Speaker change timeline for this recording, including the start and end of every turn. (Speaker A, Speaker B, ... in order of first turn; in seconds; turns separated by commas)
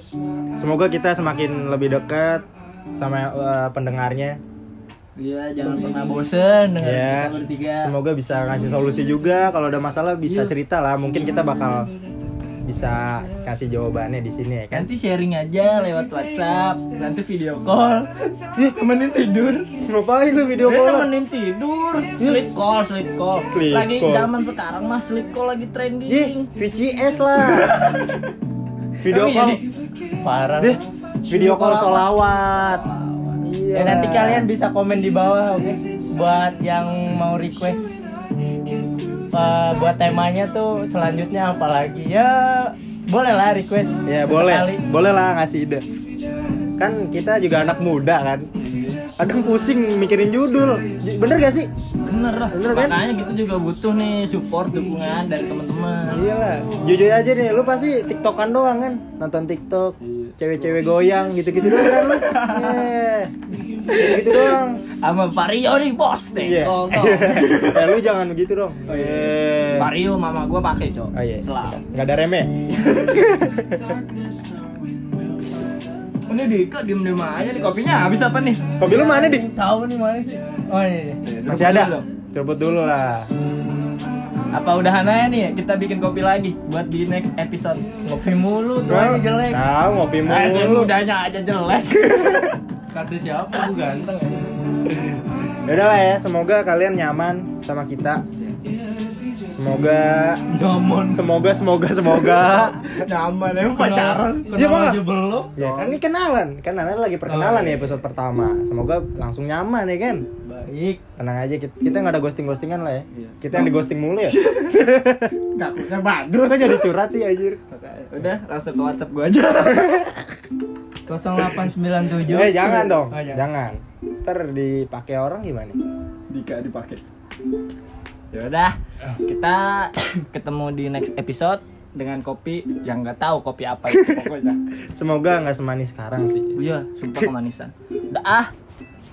Speaker A: 0.6-4.4, Speaker B: 5.2-7.9, Speaker A: 6.8-11.9, Speaker B: 10.2-10.5, Speaker A: 12.6-14.9, Speaker B: 14.7-19.7, Speaker A: 19.8-21.1, Speaker C: 20.6-21.4, Speaker B: 20.9-26.5, Speaker A: 22.2-22.5, Speaker A: 23.5-24.3, Speaker A: 26.1-27.9, Speaker B: 27.6-28.2, Speaker A: 29.0-29.6, Speaker B: 29.0-29.6, Speaker C: 30.2-30.8, Speaker A: 30.6-32.8, Speaker B: 31.3-33.4, Speaker A: 33.4-34.5, Speaker C: 33.7-38.1, Speaker C: 39.3-44.8, Speaker A: 44.0-45.8, Speaker A: 46.8-48.5, Speaker B: 48.6-49.0, Speaker A: 49.2-51.7, Speaker B: 52.0-56.2, Speaker A: 52.5-53.0, Speaker A: 56.1-63.3, Speaker B: 60.0-60.8, Speaker B: 61.6-62.9, Speaker B: 63.9-68.0, Speaker A: 63.9-64.8, Speaker A: 66.4-69.9, Speaker B: 68.8-71.8, Speaker A: 71.1-72.5, Speaker B: 72.7-73.2, Speaker A: 73.1-73.8, Speaker B: 76.3-78.7, Speaker A: 78.8-79.5, Speaker C: 78.8-81.2, Speaker B: 81.2-82.1, Speaker A: 81.4-83.3, Speaker B: 84.5-87.8, Speaker C: 88.0-89.6, Speaker A: 88.9-90.9, Speaker B: 90.2-92.6, Speaker C: 92.9-94.5, Speaker A: 95.6-98.2, Speaker A: 99.5-100.4, Speaker C: 100.5-101.3, Speaker A: 101.1-102.8, Speaker B: 102.1-104.4, Speaker C: 103.6-105.9, Speaker A: 104.5-105.0, Speaker A: 105.5-110.2, Speaker C: 107.2-108.0, Speaker C: 110.4-111.0, Speaker A: 111.2-115.4, Speaker B: 113.1-113.7, Speaker B: 114.3-114.6, Speaker C: 115.5-116.8, Speaker B: 115.9-116.3, Speaker A: 116.4-117.6, Speaker B: 117.7-120.2, Speaker C: 121.1-123.4, Speaker A: 122.1-125.8, Speaker B: 126.3-127.0, Speaker B: 128.3-134.6, Speaker A: 133.9-134.3, Speaker A: 134.9-136.5, Speaker B: 136.6-138.5